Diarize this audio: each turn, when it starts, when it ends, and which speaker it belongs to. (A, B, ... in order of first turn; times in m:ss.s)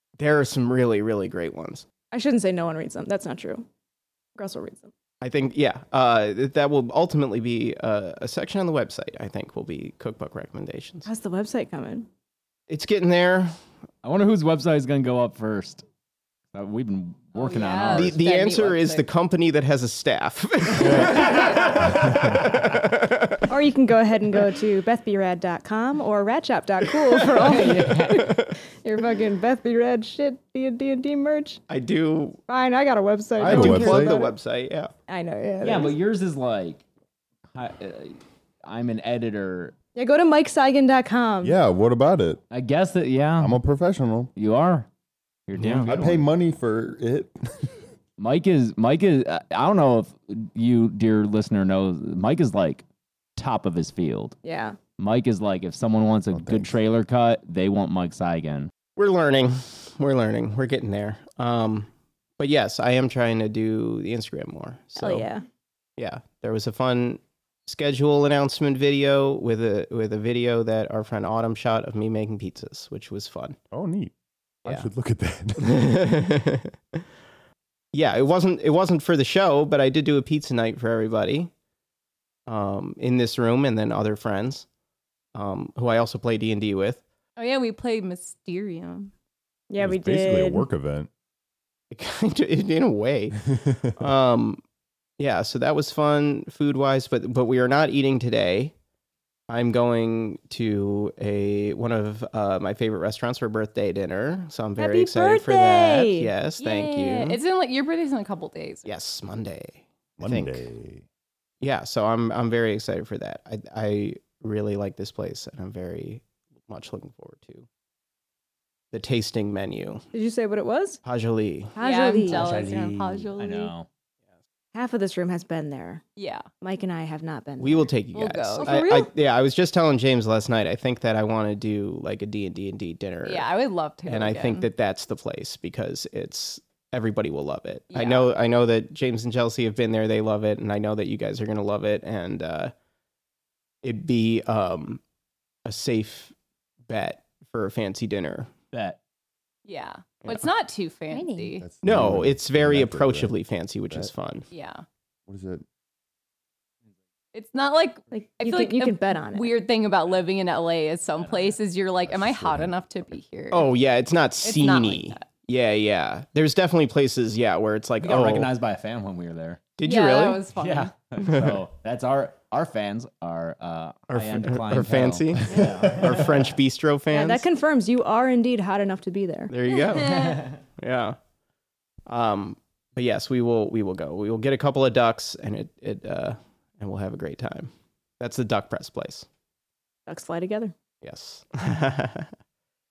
0:00.2-0:01.9 A
0:02.1-0:03.7 B
0:04.4-0:04.9 B
0:05.2-0:11.1 A
0:11.1-0:12.1 B
0:12.7-0:13.5 A
0:14.0-0:15.8 C
0:16.5-0:18.2 C
0:17.4-0:19.1 D
0:17.9-0:23.4 A
0:20.8-0:22.7 C
0:20.8-0:21.2 E
0:20.9-0:21.4 D
0:21.8-0:22.4 E
0:23.5-0:31.6 B
0:27.0-0:27.6 A
0:27.4-0:28.3 C
0:28.2-0:28.5 A
0:31.7-0:32.4 A
0:32.5-0:34.3 B
0:33.4-0:34.2 E
0:33.4-0:34.9 A
0:35.1-0:36.0 B
0:35.6-0:36.8 C
0:37.6-0:39.8 C
0:40.0-0:41.6 B
0:41.4-0:42.4 E
0:42.5-0:43.6 C
0:43.4-0:44.3 E
0:44.4-0:44.9 C
0:45.5-0:46.2 C
0:45.6-0:45.9 A
0:45.9-0:47.7 E
0:48.2-0:52.8 C
0:53.4-0:54.4 C
0:54.4-0:54.8 B
0:55.0-0:58.7 C
0:56.3-0:56.8 E
0:59.0-1:05.3 A
1:05.0-1:05.4 B
1:06.0-1:13.6 A
1:13.7-1:14.1 E
1:14.6-1:16.1 E
1:15.6-1:17.0 A
1:17.9-1:21.5 A
1:22.5-1:24.7 A
1:25.3-1:27.0 A
1:27.4-1:29.1 D
1:29.7-1:30.7 B
1:29.8-1:31.1 E
1:31.9-1:34.6 A
1:33.6-1:33.9 E
1:35.2-1:38.7 A
1:39.5-1:47.4 A
1:44.8-1:46.3 B
1:46.6-1:48.9 D
1:48.9-1:50.6 A
1:50.2-1:51.0 E
1:51.6-1:57.7 A
1:58.9-2:00.0 A
2:00.1-2:01.0 B
2:01.0-2:01.8 A
2:01.8-2:02.5 B
2:01.8-2:03.7 D
2:02.3-2:03.9 C
2:04.7-2:06.0 B
2:06.2-2:06.5 D
2:06.6-2:07.9 B
2:07.6-2:13.5 A
2:08.1-2:08.7 D
2:08.6-2:09.1 B
2:13.2-2:14.7 D
2:14.1-2:22.7 A
2:17.9-2:18.3 D
2:23.8-2:25.0 A
2:25.6-2:26.3 A
2:26.9-2:28.5 A
2:28.7-2:29.0 C
2:29.6-2:31.7 D
2:31.1-2:31.6 B
2:31.6-2:33.4 E
2:31.8-2:34.5 A
2:34.5-2:34.8 D
2:35.3-2:35.6 E
2:37.3-2:43.7 D
2:38.1-2:39.5 B
2:41.2-2:41.5 C
2:42.0-2:43.1 E
2:43.5-2:48.5 A
2:44.4-2:45.3 D
2:48.0-2:49.6 C
2:49.8-2:50.4 A
2:49.8-2:51.0 D
2:50.6-2:56.6 C
2:51.2-2:51.6 A
2:54.1-2:57.4 A
2:55.6-2:55.9 E
2:57.1-2:59.5 B
2:59.5-3:01.2 A
2:59.9-3:00.4 D
3:00.0-3:00.5 C
3:02.1-3:09.3 A
3:10.1-3:10.7 B
3:11.0-3:12.3 A